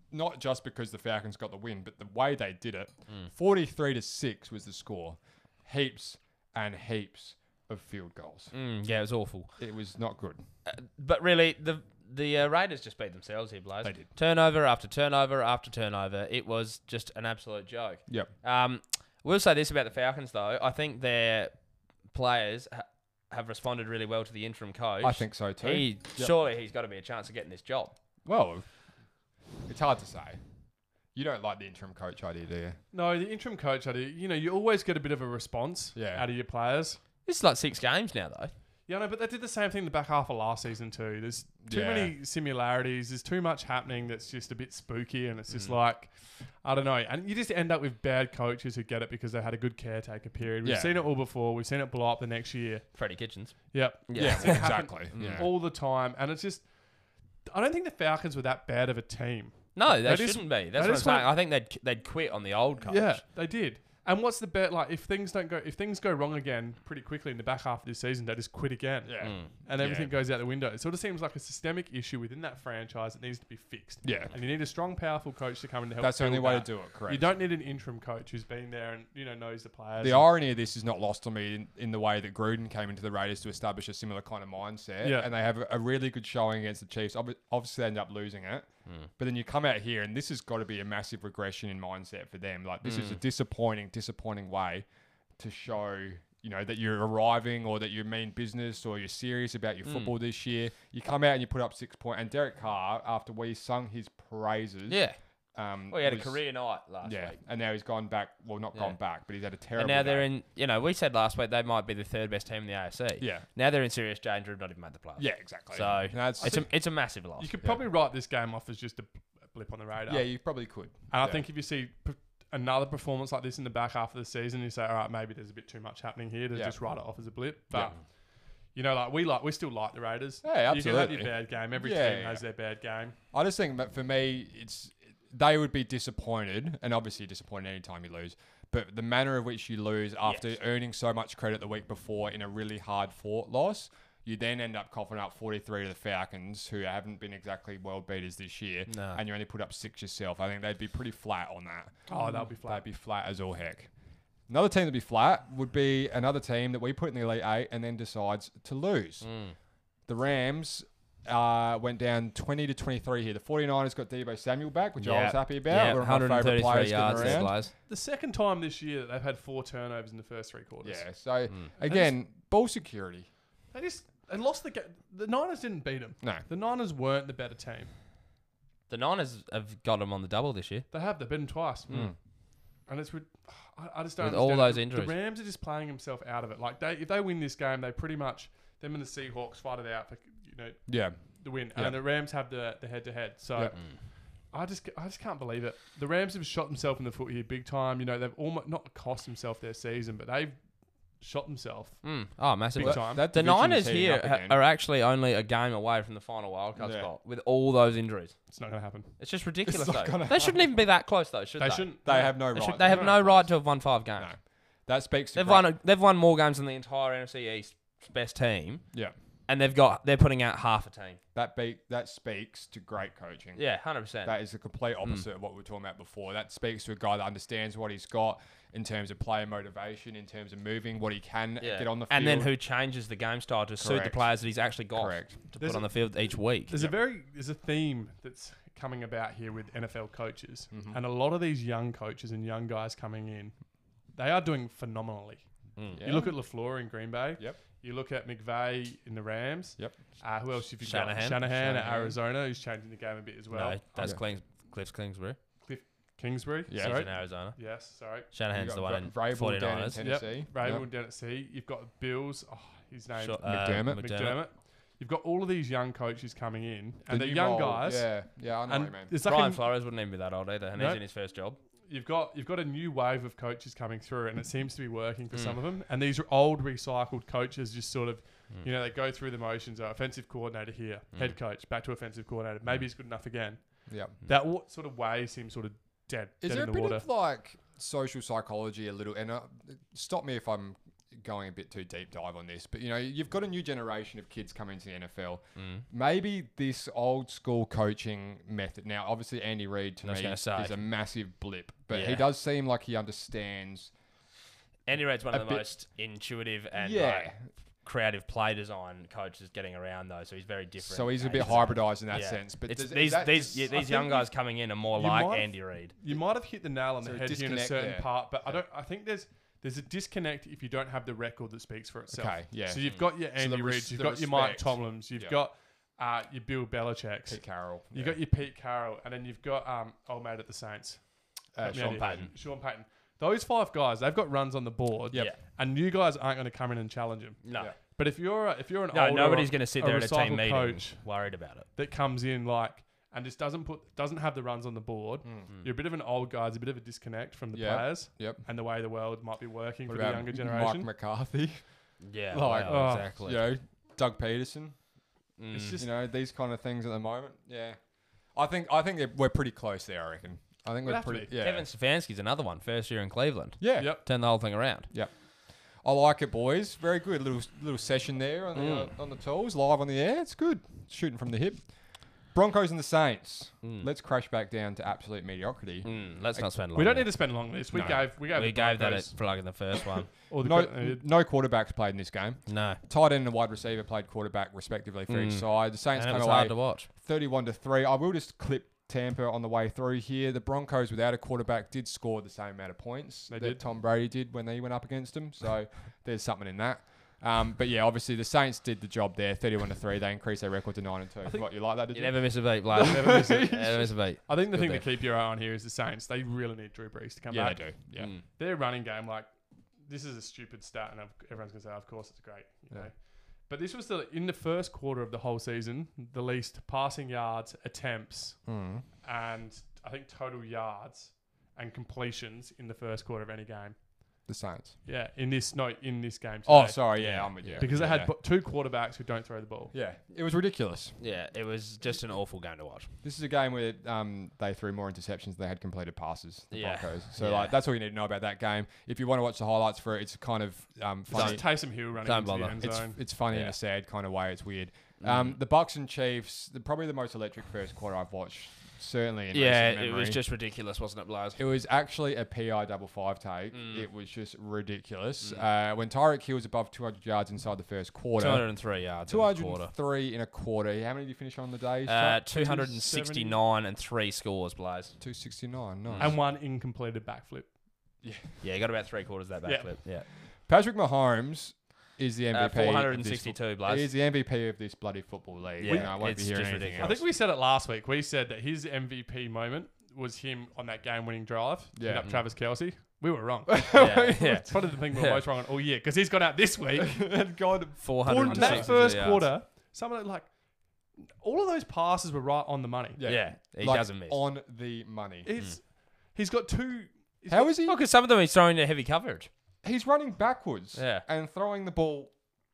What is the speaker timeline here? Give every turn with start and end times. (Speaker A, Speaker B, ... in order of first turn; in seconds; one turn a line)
Speaker A: 0.1-8.5
Speaker B: 8.5-9.5
Speaker A: 9.6-10.4
Speaker B: 10.7-21.5
Speaker B: 22.1-27.9
Speaker A: 25.0-26.3
Speaker A: 28.2-28.6
Speaker A: 29.7-30.4
Speaker A: 31.1-32.8
Speaker C: 32.9-37.0
Speaker A: 35.9-36.2
Speaker B: 37.2-38.5
Speaker C: 38.9-52.9
Speaker A: 41.6-42.1
Speaker B: 45.5-45.8
Speaker A: 50.6-50.9
Speaker B: 52.9-55.5
Speaker C: 53.7-56.7
Speaker A: 54.1-55.5
Speaker C: 57.5-61.3
Speaker B: 59.8-63.2
Speaker C: 62.9-80.3
Speaker A: 69.0-70.1
Speaker B: 69.2-69.5
Speaker A: 74.0-74.3
Speaker A: 76.0-77.3
Speaker A: 80.0-88.7
Speaker C: 85.0-85.3
Speaker A: 89.2-94.8
Speaker B: 92.8-93.2
Speaker A: 95.4-105.0
Speaker B: 99.8-100.1
Speaker B: 104.9-105.2
Speaker A: 105.5-106.4
Speaker B: 105.9-107.4
Speaker A: 107.0-110.2
Speaker B: 109.8-117.5
Speaker A: 113.2-113.4
Speaker A: 115.2-116.7
Speaker C: 117.4-120.3
Speaker A: 120.1-121.4
Speaker C: 121.1-128.0
Speaker C: 128.7-133.1
Speaker A: 130.4-132.4
Speaker A: 133.3-153.9
Speaker B: 148.9-149.2
Speaker C: 152.1-152.8
Speaker A: 154.5-159.2
Speaker B: 159.2-159.5
Speaker A: 160.1-167.5
Speaker B: 165.0-167.7
Speaker C: 167.2-171.1
Speaker A: 170.8-173.3
Speaker C: 171.8-172.1
Speaker C: 173.7-177.9
Speaker B: 178.9-180.9
Speaker C: 180.9-182.1
Speaker A: 181.9-182.1
Speaker C: 182.9-193.9
Speaker B: 184.2-185.1
Speaker A: 190.9-191.2
Speaker A: 191.7-192.0
Speaker C: 194.5-200.6
Speaker C: 201.2-202.1
Speaker B: 202.0-208.4
Speaker C: 202.7-203.3
Speaker A: 202.8-204.6
Speaker A: 206.8-207.1
Speaker C: 208.5-209.1
Speaker B: 209.2-214.3
Speaker A: 209.7-210.6
Speaker C: 211.6-213.1
Speaker A: 212.0-213.6
Speaker A: 214.2-215.7
Speaker B: 215.3-218.8
Speaker B: 219.5-221.2
Speaker A: 221.3-223.6
Speaker B: 223.6-224.4
Speaker A: 224.2-232.5
Speaker B: 231.6-236.9
Speaker A: 233.8-234.2
Speaker A: 234.9-235.4
Speaker C: 235.6-243.6
Speaker A: 240.7-241.0
Speaker C: 244.1-253.8
Speaker B: 245.8-246.1
Speaker A: 245.9-246.3
Speaker B: 250.8-251.4
Speaker A: 251.5-252.2
Speaker B: 253.5-255.4
Speaker C: 255.7-258.3
Speaker A: 256.7-257.0
Speaker B: 256.8-257.6
Speaker B: 258.3-260.0
Speaker A: 258.5-260.9
Speaker C: 260.0-269.6
Speaker B: 263.1-264.4
Speaker A: 263.4-264.1
Speaker A: 267.1-269.1
Speaker B: 269.2-271.6
Speaker C: 270.7-271.0
Speaker C: 271.9-287.0
Speaker B: 275.3-275.6
Speaker A: 283.9-284.1
Speaker A: 286.4-303.9
Speaker B: 295.6-295.8
Speaker B: 300.0-300.8
Speaker B: 301.9-302.3
Speaker B: 304.9-307.3
Speaker A: 305.3-305.6
Speaker A: 306.7-307.5
Speaker B: 307.8-315.9
Speaker A: 310.8-313.8
Speaker C: 313.7-314.3
Speaker C: 314.9-331.0
Speaker A: 317.0-318.6
Speaker A: 322.1-325.4
Speaker A: 327.3-328.2
Speaker A: 331.5-332.3
Speaker C: 331.6-341.1
Speaker B: 331.7-332.3
Speaker B: 337.4-337.7
Speaker B: 338.9-341.6
Speaker C: 341.8-350.9
Speaker A: 347.5-348.4
Speaker A: 349.9-351.6
Speaker B: 352.0-353.4
Speaker A: 352.3-354.8
Speaker C: 352.6-353.1
Speaker B: 355.4-355.8
Speaker C: 355.5-355.9
Speaker A: 355.8-357.8
Speaker A: 358.3-361.6
Speaker C: 360.8-361.3
Speaker B: 361.4-364.9
Speaker A: 363.6-364.0
Speaker C: 363.8-364.0
Speaker A: 365.8-371.6
Speaker B: 368.5-368.9
Speaker A: 372.3-376.4
Speaker B: 373.6-373.9
Speaker B: 375.8-377.1
Speaker C: 376.7-379.2
Speaker A: 377.7-378.1
Speaker B: 378.3-380.1
Speaker C: 380.3-381.0
Speaker A: 380.4-403.9
Speaker B: 382.5-382.8
Speaker B: 385.1-386.9
Speaker C: 393.3-393.6
Speaker B: 401.9-404.8
Speaker C: 402.8-407.7
Speaker A: 407.3-408.1
Speaker B: 408.0-408.2
Speaker C: 408.2-409.3
Speaker C: 409.9-418.5
Speaker A: 418.5-418.9
Speaker C: 419.0-423.8
Speaker A: 424.3-424.8
Speaker C: 424.8-429.7
Speaker A: 426.4-428.1
Speaker B: 427.0-427.7
Speaker A: 429.7-431.0
Speaker B: 431.0-432.9
Speaker A: 433.0-441.4
Speaker B: 436.5-437.6
Speaker C: 441.1-443.0
Speaker B: 441.1-441.4
Speaker B: 442.0-442.6
Speaker A: 442.6-450.2
Speaker B: 443.3-443.5
Speaker B: 445.0-445.4
Speaker B: 449.3-451.4
Speaker A: 451.4-462.2
Speaker B: 453.5-453.9
Speaker B: 458.2-459.7
Speaker B: 461.9-464.9
Speaker C: 462.3-463.4
Speaker A: 465.0-466.1
Speaker B: 465.9-466.1
Speaker C: 466.0-467.5
Speaker A: 468.0-468.4
Speaker B: 468.4-470.1
Speaker C: 469.4-469.8
Speaker A: 470.5-477.0
Speaker B: 472.3-473.9
Speaker B: 475.6-477.0
Speaker C: 475.6-476.0
Speaker C: 476.8-487.1
Speaker A: 481.8-482.1
Speaker A: 483.5-484.4
Speaker B: 483.7-485.2
Speaker A: 486.8-489.0
Speaker B: 487.8-489.3
Speaker C: 488.1-493.0
Speaker A: 493.0-495.3
Speaker B: 493.0-494.2
Speaker C: 495.2-497.5
Speaker A: 497.3-497.8
Speaker B: 497.6-499.3
Speaker A: 499.6-502.1
Speaker B: 500.7-501.0